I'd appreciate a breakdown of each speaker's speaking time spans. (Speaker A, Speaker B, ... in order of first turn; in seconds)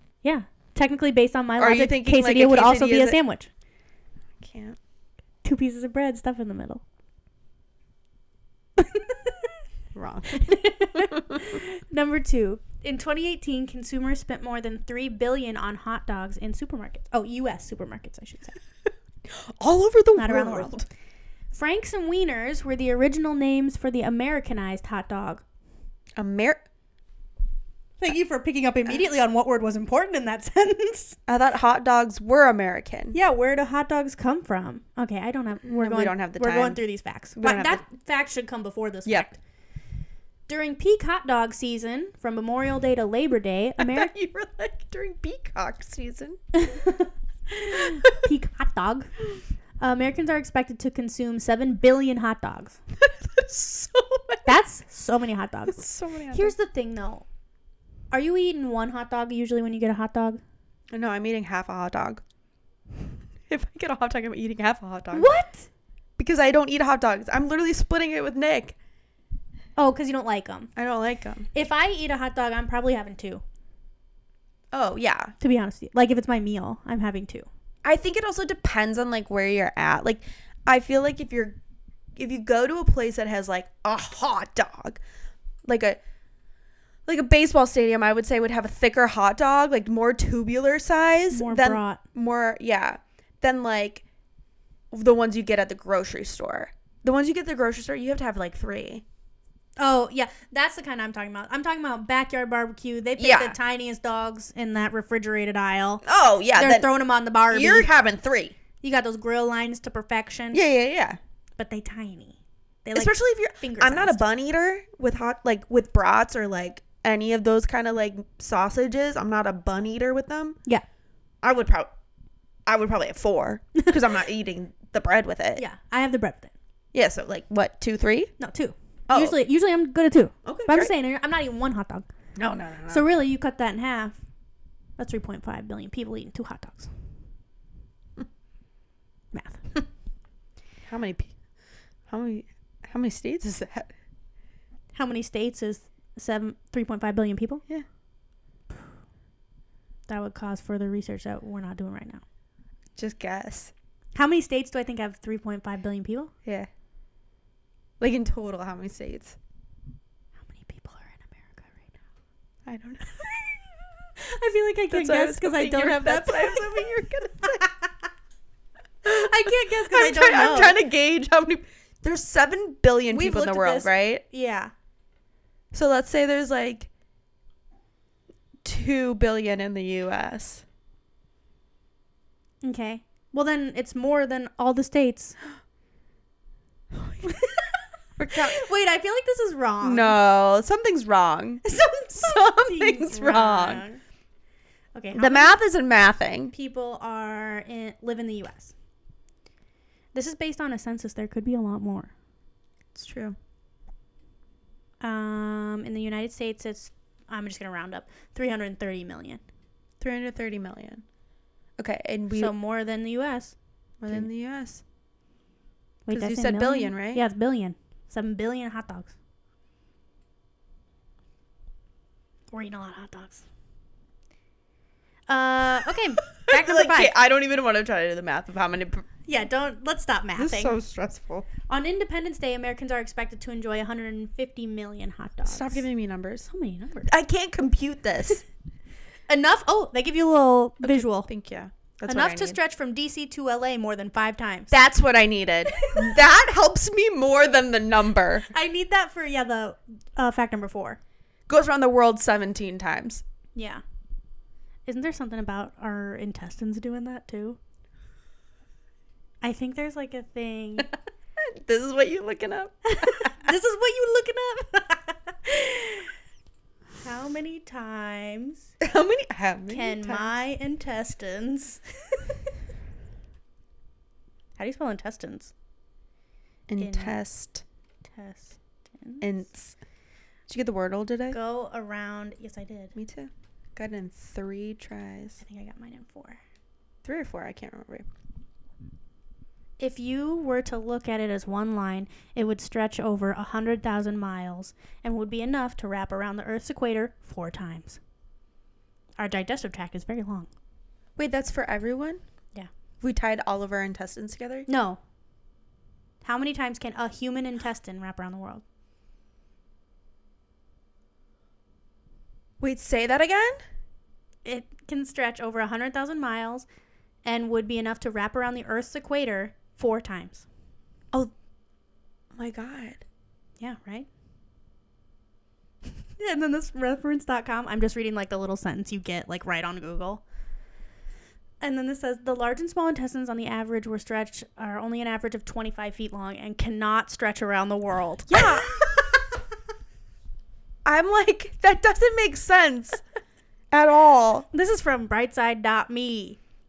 Speaker A: 0.2-3.5, 5.4-6.8, 8.8-9.5, 10.3-18.6, 20.2-20.8, 21.5-25.4, 28.0-31.2, 33.1-39.4, 40.5-44.1, 46.5-49.1, 49.8-52.8, 54.5-57.3, 58.1-60.4, 65.1-65.7, 69.8-70.7, 71.5-73.4, 75.4-77.5, 91.3-92.0, 99.8-106.0, 106.5-107.9, 108.8-110.6, 111.6-114.3, 125.6-126.5, 128.4-132.1, 132.9-134.2, 135.0-136.9, 139.3-139.7, 144.9-147.6, 150.1-152.2, 154.2-156.3, 160.4-161.9, 164.2-167.9, 169.0-170.8, 173.1-174.7, 182.6-185.4, 187.3-187.8, 188.3-190.2, 191.7-194.0, 194.9-195.6, 196.5-198.7, 200.1-202.1, 205.0-209.4, 212.3-213.6, 216.1-219.2, 222.5-223.5, 225.3-227.1, 229.3-230.8, 231.7-235.8, 236.5-237.1, 239.3-241.3, 242.1-244.7, 245.7-246.2, 248.5-251.0, 253.6-253.8, 254.9-257.6, 259.4-260.9, 262.9-266.1, 267.0-268.7, 269.7-272.2, 274.6-275.5, 276.8-277.2, 278.1-279.4, 281.3-282.9, 285.4-286.4, 289.8-298.0, 299.2-300.5, 304.7-305.0, 306.2-308.6, 314.4-316.7, 317.2-320.5, 323.6-324.1, 326.2-330.2, 331.6-339.2, 344.5-346.4
Speaker B: 1.6-3.2, 4.4-4.8, 9.9-11.4, 19.3-20.9, 26.2-26.6, 31.3-33.2, 35.6-36.8, 37.4-37.8, 43.8-46.4, 47.8-48.2, 53.0-54.5, 55.7-56.5, 60.9-62.2, 63.5-65.3, 66.2-68.8, 70.8-71.5, 74.7-75.3, 77.8-81.6, 82.2-85.0, 85.7-86.0, 87.1-94.0, 94.9-99.0, 103.2-103.6, 106.0-106.9, 107.5-108.6, 110.5-111.2, 112.9-120.6, 121.4-121.9, 122.7-125.6, 126.9-128.3, 129.1-129.4, 130.4-130.9, 132.4-133.1, 140.9-141.3, 142.1-143.9, 153.0-153.7, 158.0-159.4, 162.7-163.3, 164.9-167.7, 169.1-174.2, 175.7-176.9, 178.6-180.7, 186.9-187.4, 188.2-188.6, 189.8-193.8, 195.1-196.5, 202.9-203.4, 210.0-211.0, 211.8-212.5, 214.0-214.8, 216.1-217.2, 226.4-229.1, 230.4-231.5, 235.5-236.5, 237.1-238.4, 240.8-242.6, 244.7-248.5, 251.5-253.2, 261.4-263.6, 268.8-270.4, 276.7-277.6, 279.2-279.7, 280.5-281.4, 283.0-285.4, 287.0-288.1, 301.2-302.2, 303.0-304.7, 312.6-313.6, 322.4-323.0, 338.3-339.1, 340.9-343.0, 343.7-344.5